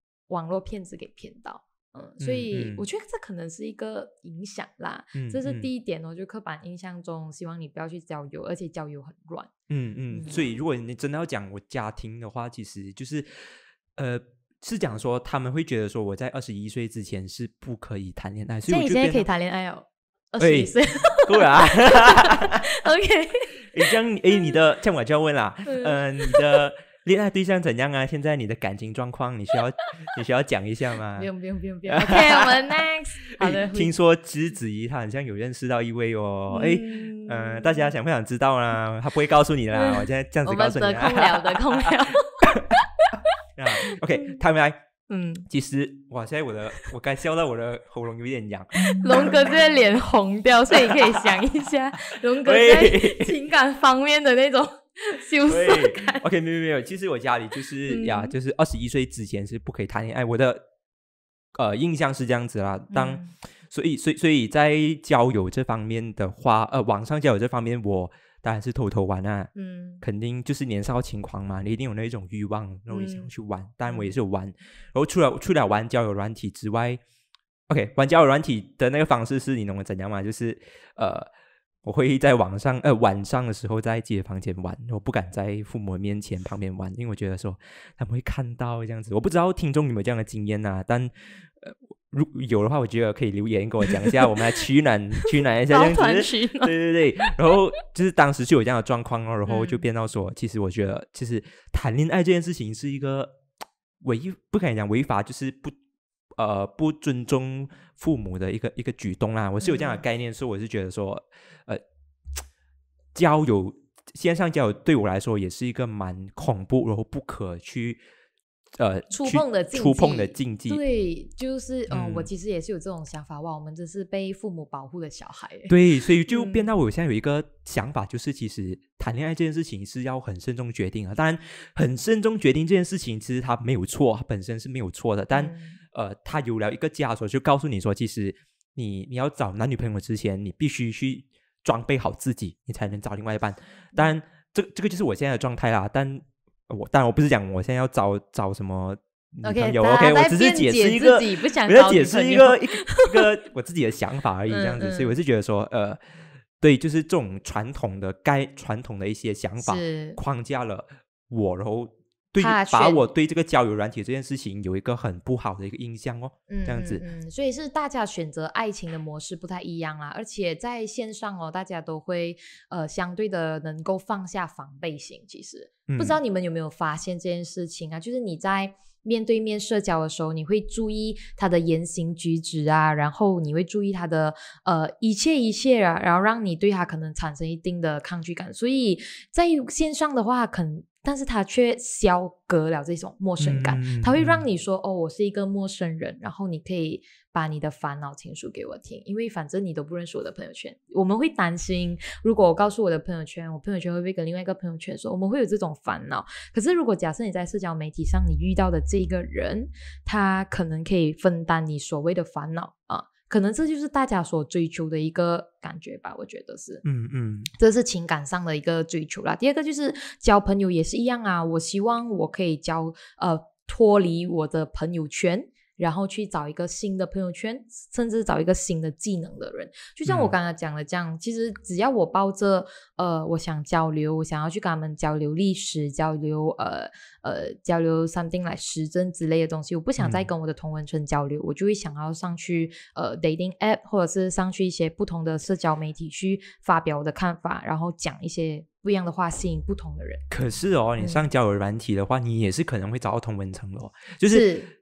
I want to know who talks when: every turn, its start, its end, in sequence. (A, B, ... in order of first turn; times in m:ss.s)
0:00.3-0:09.5 A
0:02.2-0:02.8 B
0:05.1-0:05.7 B
0:09.7-0:19.3 B
0:10.1-0:10.4 A
0:18.7-0:24.0 A
0:20.4-0:22.6 B
0:23.6-0:31.3 B
0:25.6-0:26.6 A
0:31.2-0:33.9 A
0:31.9-0:32.8 B
0:33.3-0:41.9 B
0:36.5-0:37.9 A
0:39.7-0:43.3 A
0:42.4-0:42.8 B
0:43.6-0:44.8 B
0:43.8-0:44.4 A
0:45.1-0:45.4 A
0:45.5-0:49.5 B
0:48.8-0:56.2 A
0:50.7-0:51.3 B
0:52.3-0:53.3 B
0:55.4-1:00.6 B
0:57.9-0:58.3 A
1:01.5-1:09.5 B
1:02.9-1:03.3 A
1:09.5-1:10.0 A
1:10.0-1:17.0 B
1:12.9-1:13.3 A
1:13.9-1:14.1 A
1:17.7-1:21.3 B
1:21.8-1:43.4 B
1:33.8-1:34.6 A
1:35.2-1:37.3 A
1:39.4-1:39.8 A
1:44.0-1:45.7 B
1:46.3-1:51.8 B
1:49.6-1:50.0 A
1:53.1-1:58.0 B
1:58.8-2:00.8 B
1:59.1-2:05.7 A
2:01.9-2:02.3 B
2:05.7-2:36.0 B
2:06.3-2:06.6 A
2:15.3-2:15.8 A
2:29.4-2:33.3 A
2:34.5-2:35.2 A
2:36.6-2:47.0 B
2:39.6-2:40.2 A
2:42.4-2:43.0 A
2:46.5-3:36.8 A
2:55.9-2:56.2 B
3:13.4-3:14.4 B
3:36.8-3:37.5 B
3:37.6-4:10.2 A
3:50.0-3:50.3 B
4:00.0-4:00.3 B
4:10.3-4:14.5 B
4:11.0-4:11.3 A
4:14.3-4:14.7 A